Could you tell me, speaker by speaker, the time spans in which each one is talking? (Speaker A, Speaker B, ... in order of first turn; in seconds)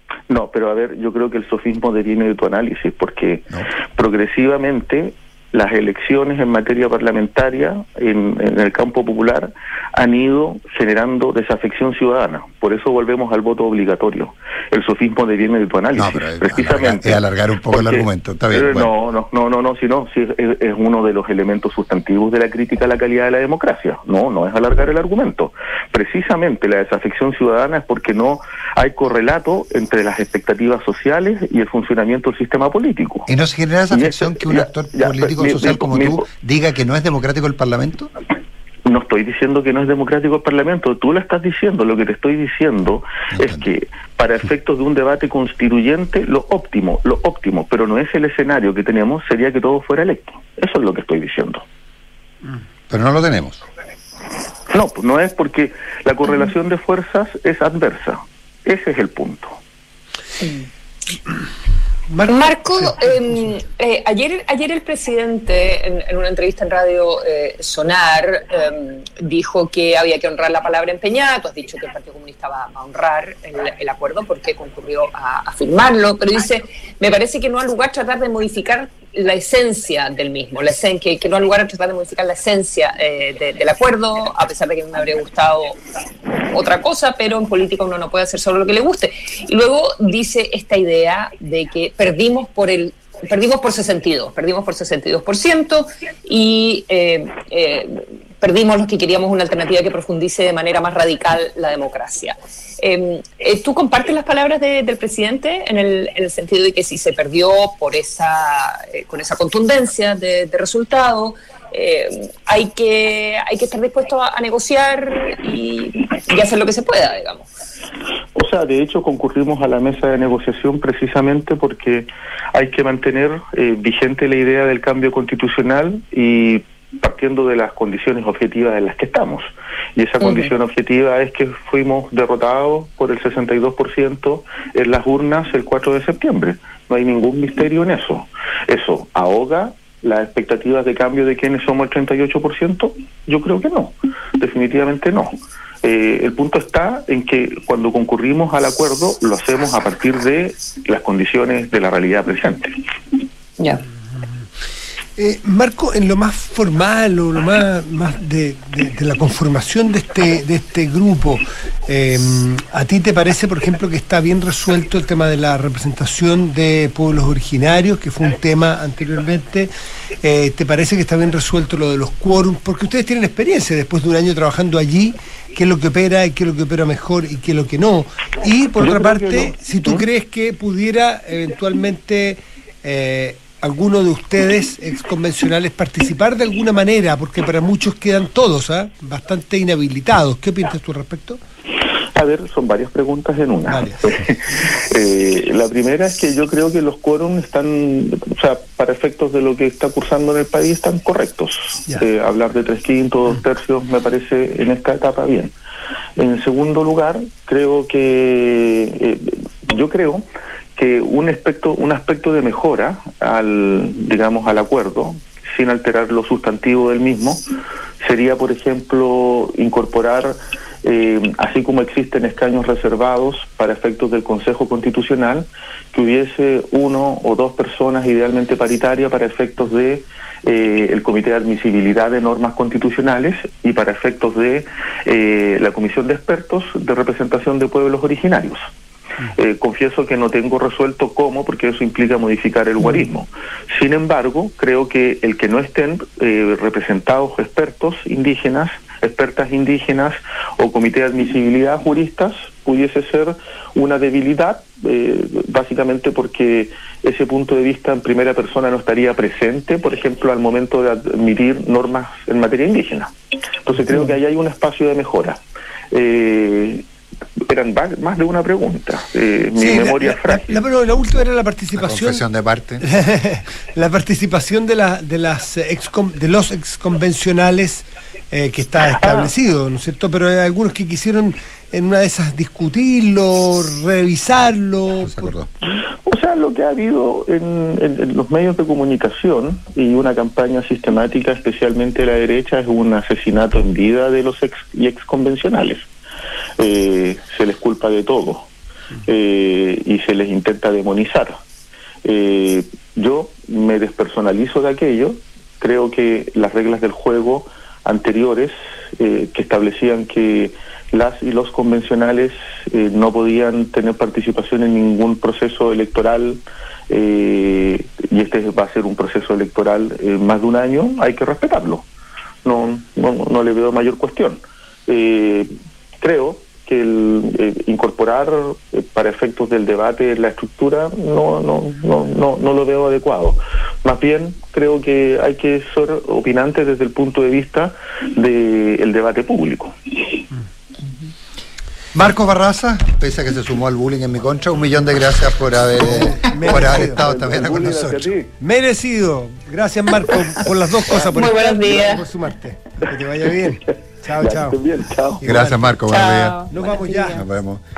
Speaker A: 0.3-33.3, 33.9-36.3, 38.9-51.6, 54.7-59.6, 118.3-152.8, 178.8-180.1, 192.2-205.5, 206.2-210.2, 210.8-217.4, 218.0-238.7, 239.4-263.1, 263.7-266.9, 267.5-270.6, 279.0-279.3, 286.1-295.9, 296.6-298.5, 299.1-301.4, 302.1-321.9, 322.4-339.8, 346.5-348.3, 354.2-355.2
Speaker B: 15.9-18.9, 33.3-38.1, 43.3-43.6, 52.9-53.6, 271.7-272.9, 285.0-285.5, 341.9-348.1, 355.2-356.5, 357.1-357.6
Speaker C: 60.4-60.7, 62.3-85.8, 86.5-117.5, 130.2-130.5, 351.1-352.1, 355.9-357.2
Speaker D: 62.1-63.5, 155.2-169.7, 170.2-191.4, 193.7-194.2, 269.6-272.2, 272.8-285.3, 345.8-354.6, 355.2-355.9, 356.5-357.2